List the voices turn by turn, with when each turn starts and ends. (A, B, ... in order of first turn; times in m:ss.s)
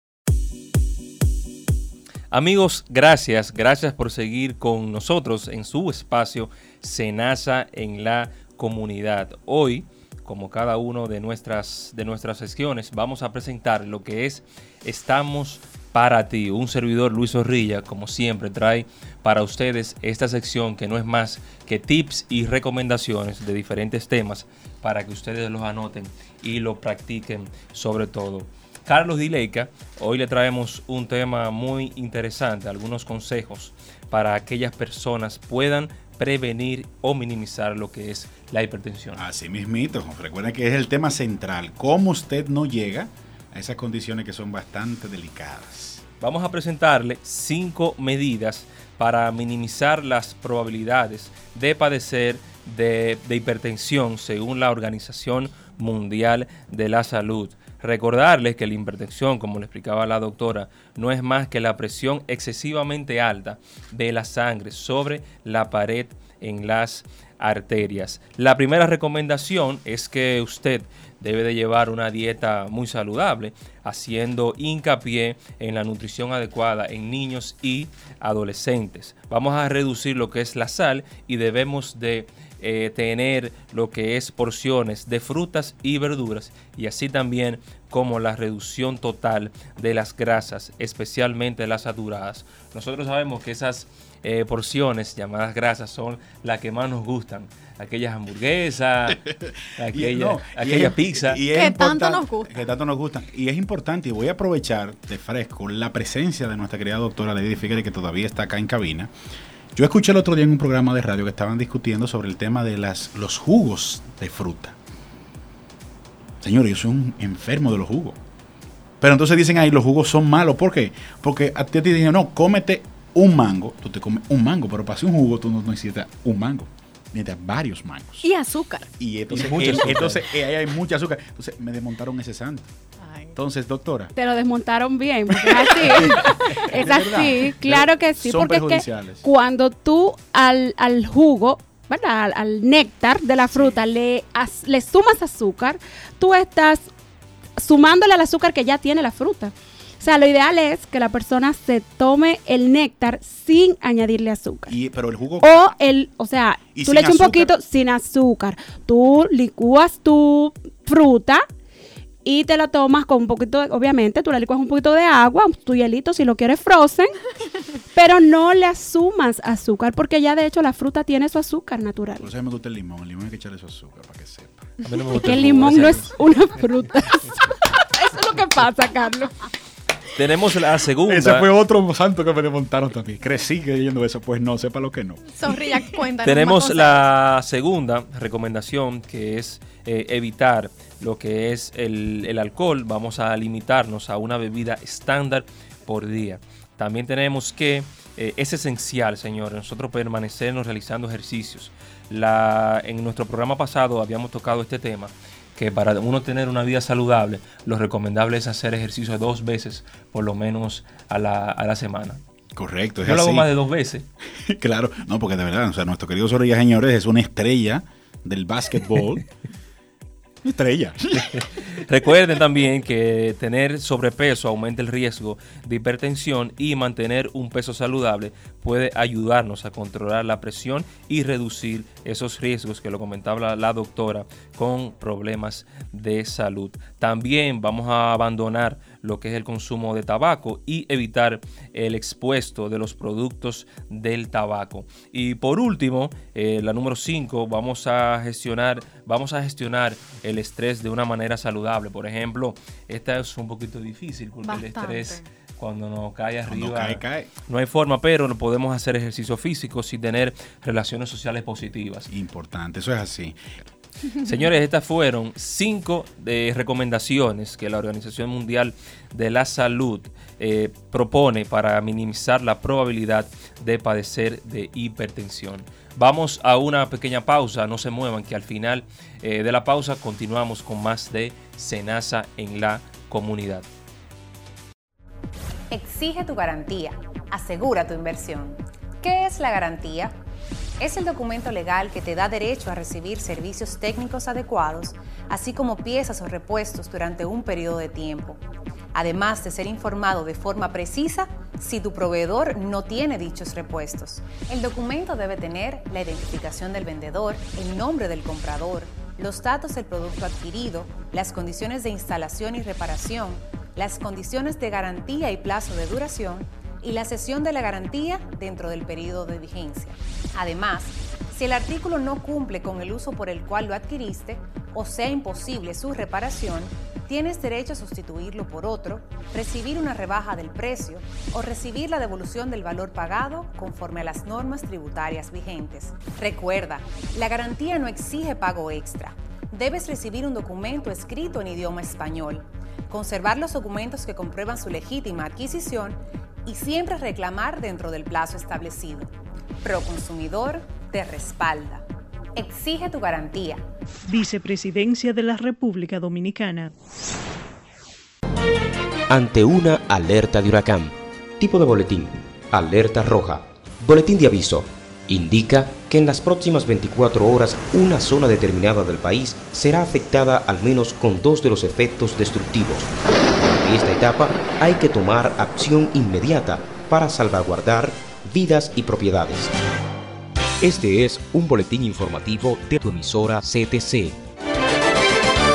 0:02.3-0:39.2 A
0:39.2-0:46.0 B
0:46.2-1:39.2 A
1:39.5-1:49.1 B
1:39.8-1:41.4 A
1:41.5-1:42.6 C
1:49.7-1:54.8 B
1:56.4-1:58.2 B
1:59.0-2:08.3 B
2:08.2-2:08.9 C
2:09.0-2:12.7 B
2:09.3-2:10.2 A
2:13.0-2:13.3 C
2:13.3-2:14.1 B
2:14.1-2:26.9 D
2:15.7-2:19.2 B
2:27.6-2:34.7 D
2:34.7-2:35.8 B
2:35.4-2:41.4 D
2:36.7-2:37.5 B
2:42.2-2:47.2 D
2:47.9-2:52.3 D
2:52.2-2:54.7 B
2:54.8-2:56.1 A
2:55.1-2:59.3 D
3:00.2-3:01.5 A
3:01.0-3:05.3 B
3:05.4-3:07.0 C
3:06.2-3:32.2 A
3:32.6-3:33.5 B
3:33.0-3:34.0 A
3:34.4-3:39.3 B
3:40.4-3:41.4 B
3:41.3-4:22.1 A
4:14.4-4:15.3 C
4:16.4-4:17.3 B
4:22.1-4:23.7 B
4:24.2-4:43.6 A
4:45.7-4:50.1 E
4:50.8-4:58.4 E
4:58.9-5:49.1 E
5:49.6-5:51.8 E
5:52.4-5:53.6 E
5:54.1-5:56.7 F
5:59.1-6:12.9 G
6:13.4-6:19.5 G
6:20.6-6:24.2 G